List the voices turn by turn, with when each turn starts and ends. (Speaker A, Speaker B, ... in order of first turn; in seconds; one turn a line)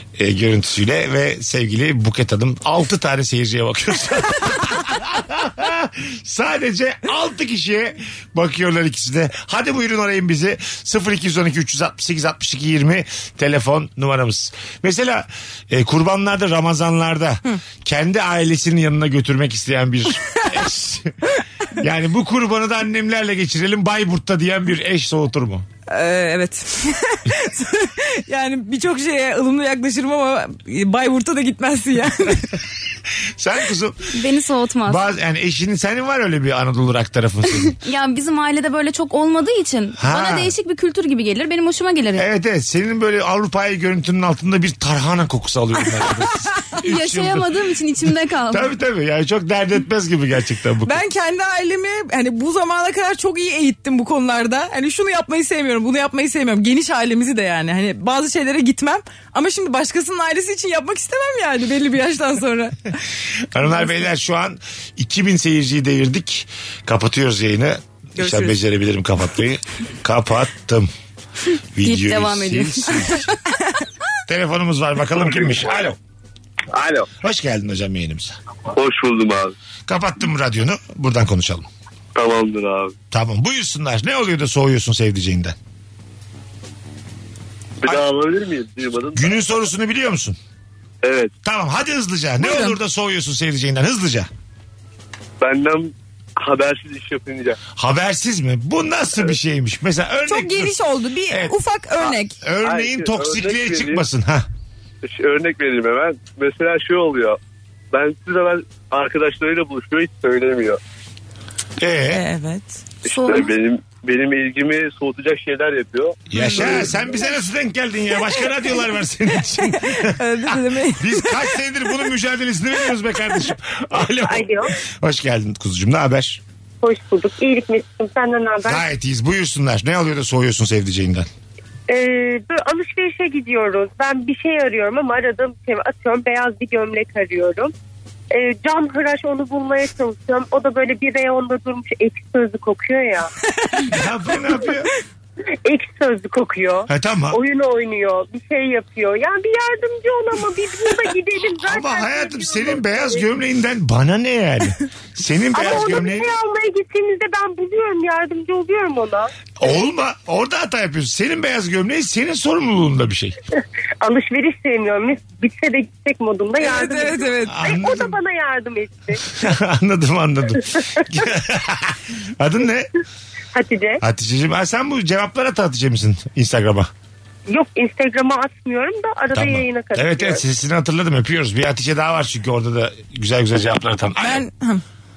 Speaker A: 0.2-21.1
Speaker A: 21.8-25.7
Speaker B: 25.9-32.6
Speaker A: 33.4-34.1
Speaker C: 34.1-35.0
Speaker A: 34.9-37.8
Speaker C: 37.7-42.3
Speaker A: 40.0-40.5
Speaker A: 42.2-47.6
Speaker C: 46.8-48.7
Speaker A: 48.5-51.0
Speaker B: 50.9-63.0
Speaker A: 63.5-70.9
Speaker B: 68.2-68.6
Speaker A: 71.8-73.3
Speaker C: 71.8-73.2
Speaker A: 74.3-76.0
Speaker D: 75.2-75.9
Speaker D: 76.7-77.1
Speaker A: 77.2-78.4
Speaker D: 78.7-79.5
Speaker A: 79.9-81.7
Speaker D: 82.2-82.9
Speaker A: 83.1-85.6
Speaker D: 87.8-89.6
Speaker A: 89.2-90.4
Speaker D: 91.0-91.3
Speaker A: 91.4-94.3
Speaker D: 95.4-97.6
Speaker A: 97.8-100.7
Speaker B: 100.3-102.4
Speaker A: 101.3-101.6
Speaker A: 102.4-104.5
Speaker D: 102.6-104.0
Speaker D: 105.0-107.4
Speaker D: 107.9-110.8
Speaker A: 111.8-112.2
Speaker B: 112.1-112.8
Speaker D: 113.0-116.2
Speaker C: 113.1-113.5
Speaker A: 116.3-126.4
Speaker B: 116.3-117.0
Speaker B: 119.8-121.4
Speaker E: 124.2-124.7
Speaker E: 126.8-128.8
Speaker A: 128.6-131.3
Speaker E: 131.9-137.7
Speaker E: 138.3-143.3
Speaker B: 143.7-144.0
Speaker A: 143.9-144.9
Speaker E: 145.7-153.2
Speaker A: 146.9-147.4
Speaker A: 151.6-156.3
Speaker E: 155.5-159.3
Speaker A: 159.6-163.4
Speaker E: 164.0-169.2
Speaker B: 166.6-167.6
Speaker A: 167.5-168.2
Speaker A: 169.3-172.9
Speaker E: 173.5-174.0
Speaker A: 174.0-176.9
Speaker E: 177.5-180.4
Speaker A: 179.3-184.4
Speaker B: 184.2-184.8